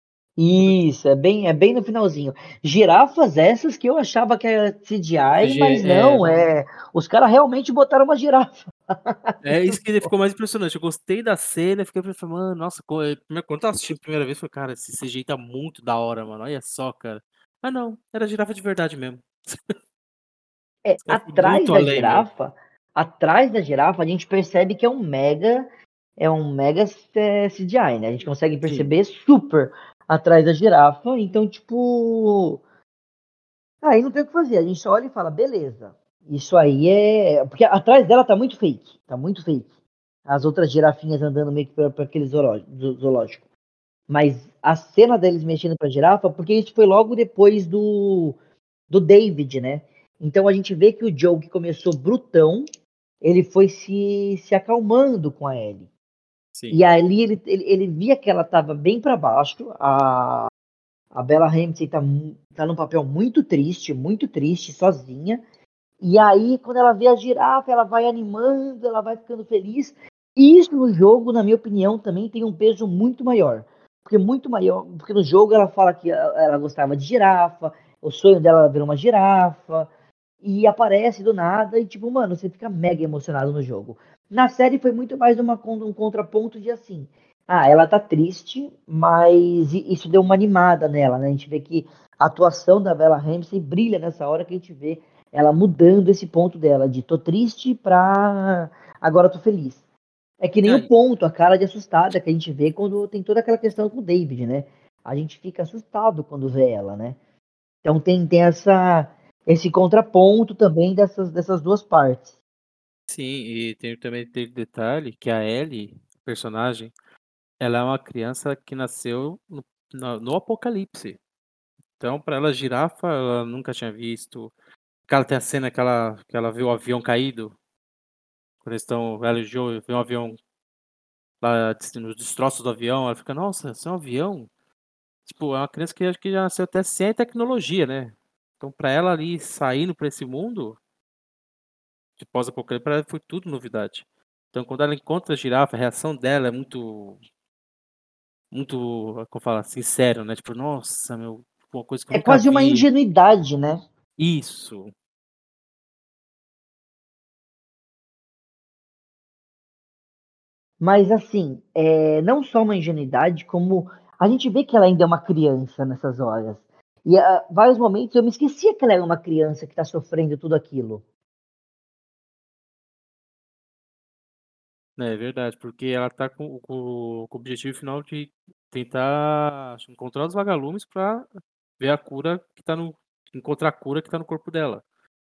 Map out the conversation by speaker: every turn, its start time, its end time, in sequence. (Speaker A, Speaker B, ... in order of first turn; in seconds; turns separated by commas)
Speaker A: 0.4-10.1, Speaker B: 5.4-6.4, Speaker B: 9.4-19.7, Speaker A: 20.8-25.7, Speaker B: 21.0-22.3, Speaker A: 26.2-32.6, Speaker A: 33.8-39.7, Speaker A: 40.3-43.4, Speaker A: 44.1-48.4, Speaker A: 48.9-52.6, Speaker A: 53.2-55.9, Speaker B: 56.5-56.8, Speaker A: 56.7-60.5, Speaker A: 61.1-65.4, Speaker A: 66.0-79.9, Speaker A: 80.4-99.8, Speaker A: 100.4-107.2, Speaker B: 100.6-100.9, Speaker A: 107.8-112.3, Speaker B: 113.1-116.9, Speaker B: 117.6-121.2, Speaker B: 122.0-124.5, Speaker B: 125.1-127.5, Speaker B: 128.6-130.4, Speaker B: 131.4-134.5, Speaker B: 135.2-140.8, Speaker B: 142.2-147.2, Speaker B: 148.5-152.9, Speaker A: 152.1-153.8, Speaker B: 154.2-154.9, Speaker A: 160.8-171.0, Speaker B: 175.0-181.3, Speaker B: 181.8-184.8